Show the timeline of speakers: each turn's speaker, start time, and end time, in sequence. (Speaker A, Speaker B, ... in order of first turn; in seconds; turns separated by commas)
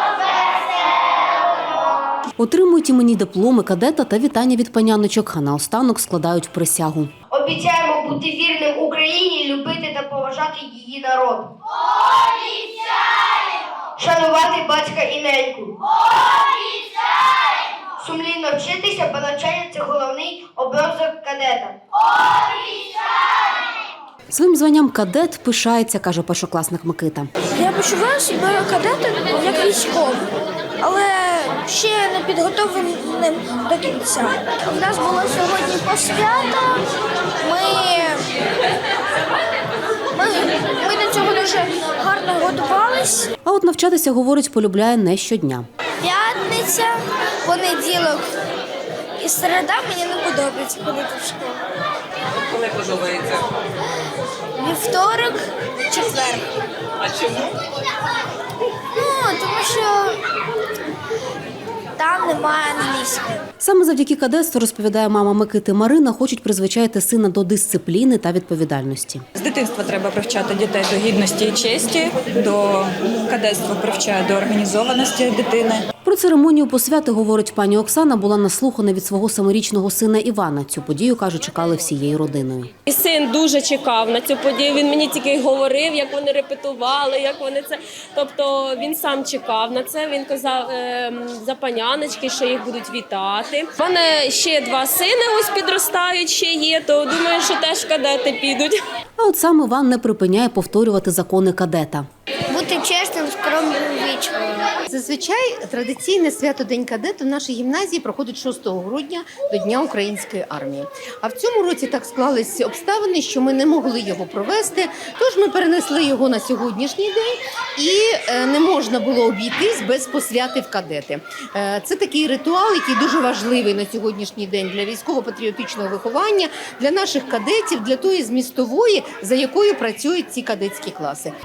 Speaker A: 2.4-7.1, Speaker B: 7.3-11.5, Speaker B: 12.2-13.1, Speaker B: 14.0-15.8, Speaker B: 18.0-21.8, Speaker A: 24.3-27.3, Speaker C: 27.5-30.2, Speaker C: 30.8-36.8, Speaker C: 37.4-38.3, Speaker C: 40.1-43.3, Speaker A: 43.5-45.7, Speaker C: 46.0-48.3, Speaker C: 49.2-51.6, Speaker C: 54.6-56.5, Speaker C: 58.9-60.2, Speaker C: 62.0-63.4, Speaker A: 63.6-69.2, Speaker D: 69.4-75.8, Speaker A: 76.0-82.7, Speaker E: 82.9-98.8, Speaker A: 99.2-102.1, Speaker C: 102.5-104.7, Speaker F: 104.9-131.3